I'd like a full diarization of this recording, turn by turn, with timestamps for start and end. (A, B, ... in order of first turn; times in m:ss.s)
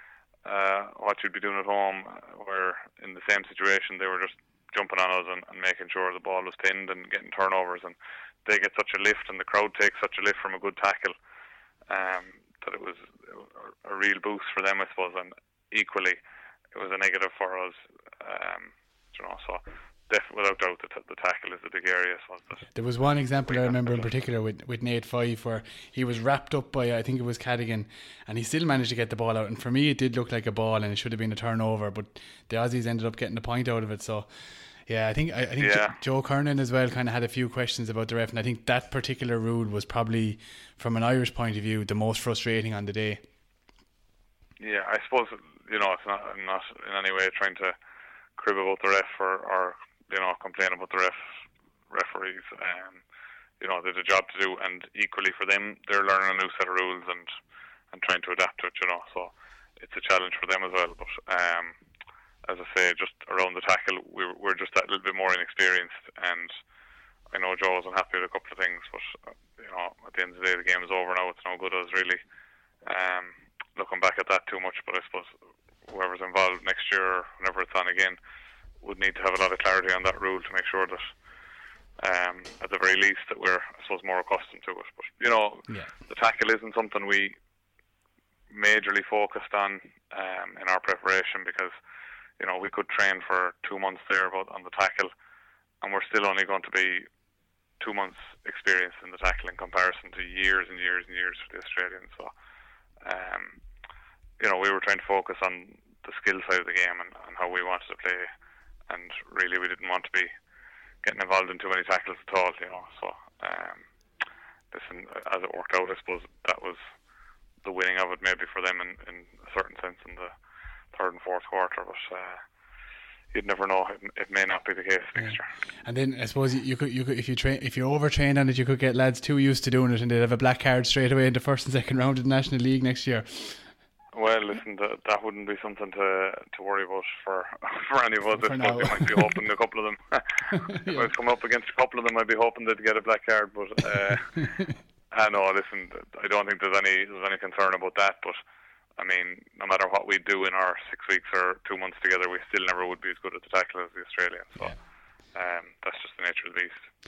0:00.4-0:11.1 A
0:11.9-0:16.2 A
0:16.7-0:22.7 A
0:22.7-0:34.3 B
0:23.5-0:24.1 A
0:34.8-0:43.2 B
0:35.6-0:36.0 A
0:44.6-0:47.8 A
0:48.4-0:51.2 A
0:51.9-0:53.0 A
0:53.6-0:57.3 A
0:57.9-1:01.8 A
1:02.4-1:06.5 A
1:07.3-1:12.2 A
1:12.8-1:15.3 A
1:15.9-1:18.2 A
1:18.8-1:21.1 A
1:22.0-1:27.4 A
1:28.5-1:31.7 A
1:32.4-1:35.1 A
1:35.8-1:37.1 A
1:37.8-1:42.3 A
1:43.0-1:43.6 A
1:44.4-1:48.3 A
1:48.9-1:50.3 A
1:51.0-1:53.8 A
1:54.7-1:56.8 A
1:57.6-2:00.3 A
2:00.9-2:02.4 A
2:03.3-2:05.5 A
2:05.2-2:13.7 B
2:14.1-2:24.5 A
2:18.4-2:19.4 B
2:20.5-2:21.1 B
2:25.1-2:28.4 A
2:29.0-2:34.8 A
2:35.3-2:36.8 A